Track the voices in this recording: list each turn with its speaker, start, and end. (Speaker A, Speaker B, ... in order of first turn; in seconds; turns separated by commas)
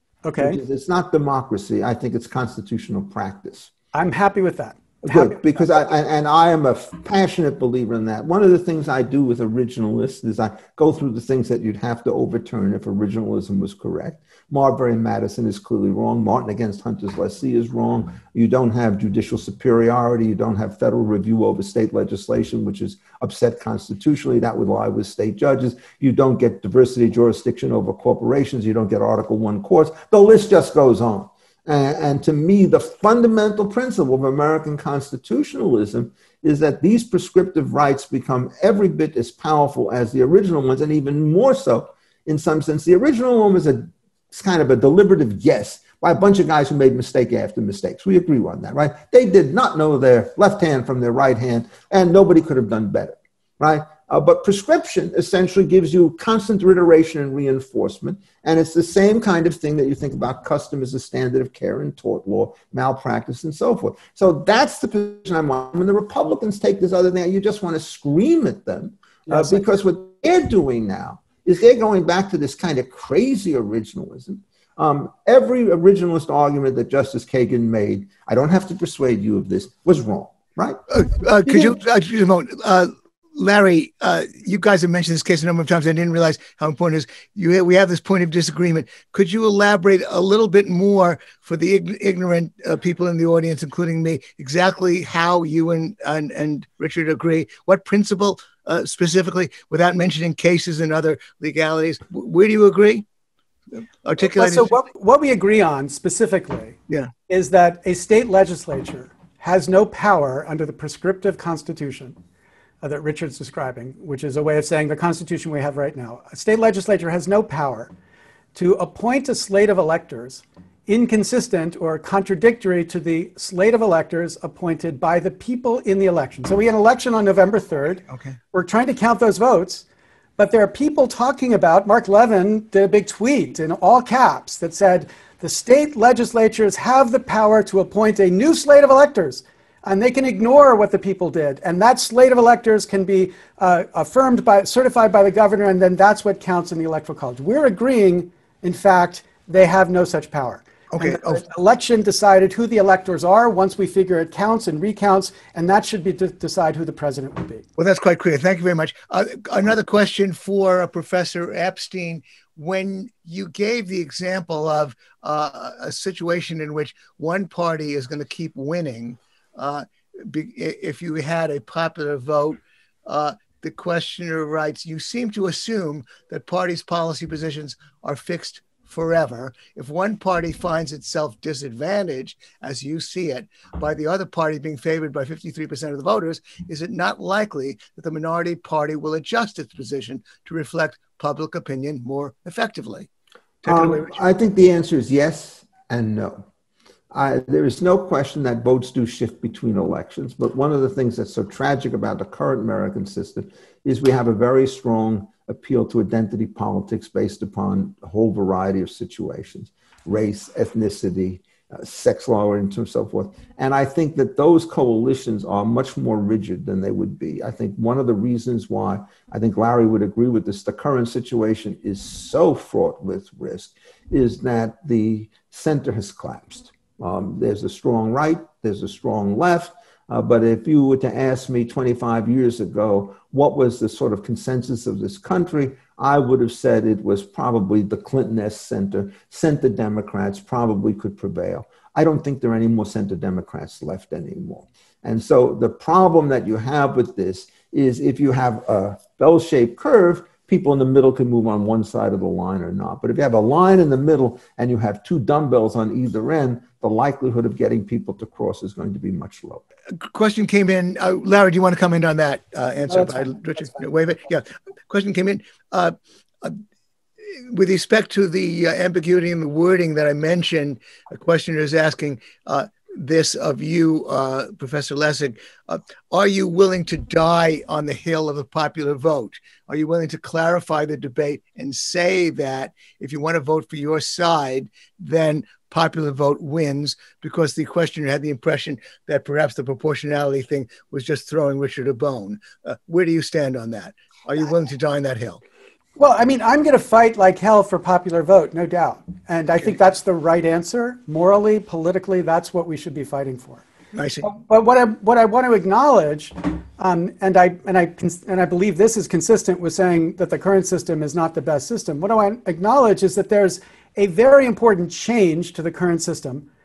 Speaker A: 0.2-0.6, Speaker B: 0.4-3.7, Speaker A: 3.9-5.8, Speaker B: 5.0-80.8, Speaker A: 69.3-69.6, Speaker C: 80.9-103.0, Speaker C: 103.8-104.7, Speaker A: 104.4-106.8, Speaker A: 107.3-112.1, Speaker A: 112.8-117.9, Speaker A: 118.5-129.8, Speaker C: 128.1-128.4, Speaker A: 130.4-157.6, Speaker C: 150.9-151.4, Speaker C: 157.8-193.1, Speaker C: 193.6-194.2, Speaker B: 193.6-196.4, Speaker B: 197.1-259.6, Speaker C: 259.9-266.6, Speaker C: 267.5-295.4, Speaker A: 295.9-303.6, Speaker C: 303.9-304.2, Speaker A: 304.2-316.4